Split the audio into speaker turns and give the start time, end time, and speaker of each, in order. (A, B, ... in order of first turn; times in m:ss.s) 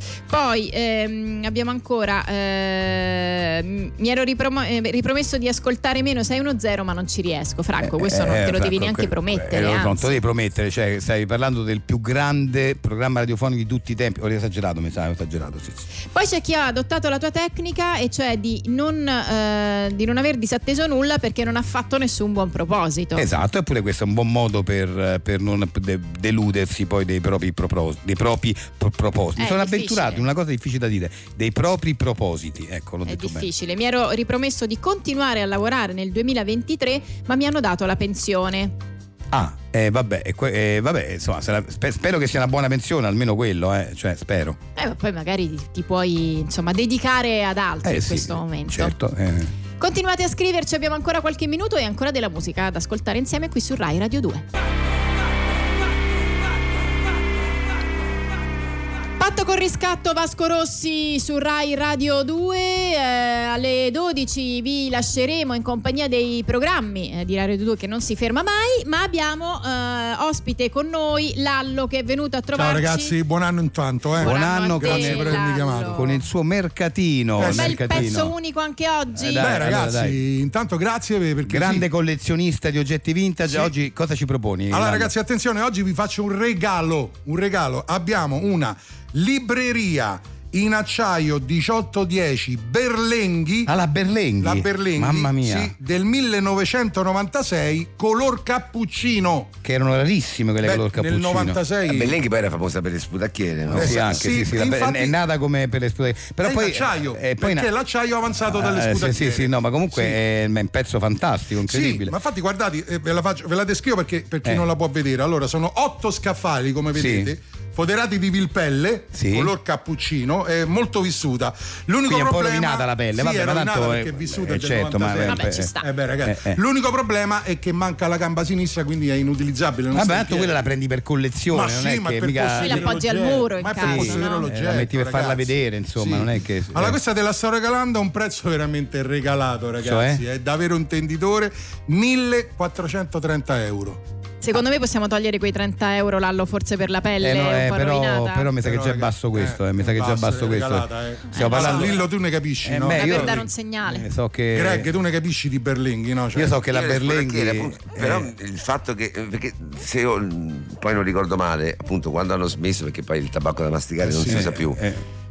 0:00.3-0:10.1 A
0:07.8-0:15.8 B
0:16.1-0:23.2 A
0:23.1-0:33.5 B
0:29.4-0:30.2 A
0:33.0-0:38.7 A
0:39.3-0:44.6 B
0:44.8-0:48.9 A
0:47.8-0:49.5 B
0:49.8-0:54.4 A
0:59.2-1:13.1 A
1:12.5-1:16.2 C
1:14.2-1:18.3 B
1:14.2-1:16.2 A
1:17.4-1:18.0 C
1:17.4-1:19.6 A
1:19.2-1:20.2 B
1:19.4-1:21.9 C
1:21.4-1:25.1 B
1:23.4-1:23.7 C
1:24.7-1:33.7 C
1:33.7-1:35.7 B
1:34.4-1:39.5 C
1:39.6-1:41.6 B
1:40.6-1:42.2 C
1:41.9-1:44.3 D
1:43.7-1:47.7 B
1:43.7-1:45.1 C
1:46.4-1:50.2 C
1:48.3-1:52.1 B
1:51.6-2:10.6 C
1:56.9-1:57.3 B
1:59.1-1:59.5 B
2:02.1-2:06.6 B
2:05.2-2:05.9 A
2:09.9-2:13.0 B
2:11.5-2:24.0 C
2:12.5-2:14.5 A
2:13.8-2:17.0 B
2:19.8-2:20.2 B
2:24.4-2:28.5 A
2:27.2-2:32.0 B
2:28.6-2:33.4 C
2:31.3-2:32.0 A
2:32.6-2:34.9 B
2:32.9-2:34.0 A
2:34.5-2:36.6 C
2:36.3-2:38.3 B
2:36.6-2:44.8 D
2:44.0-2:44.5 C
2:44.1-2:45.0 B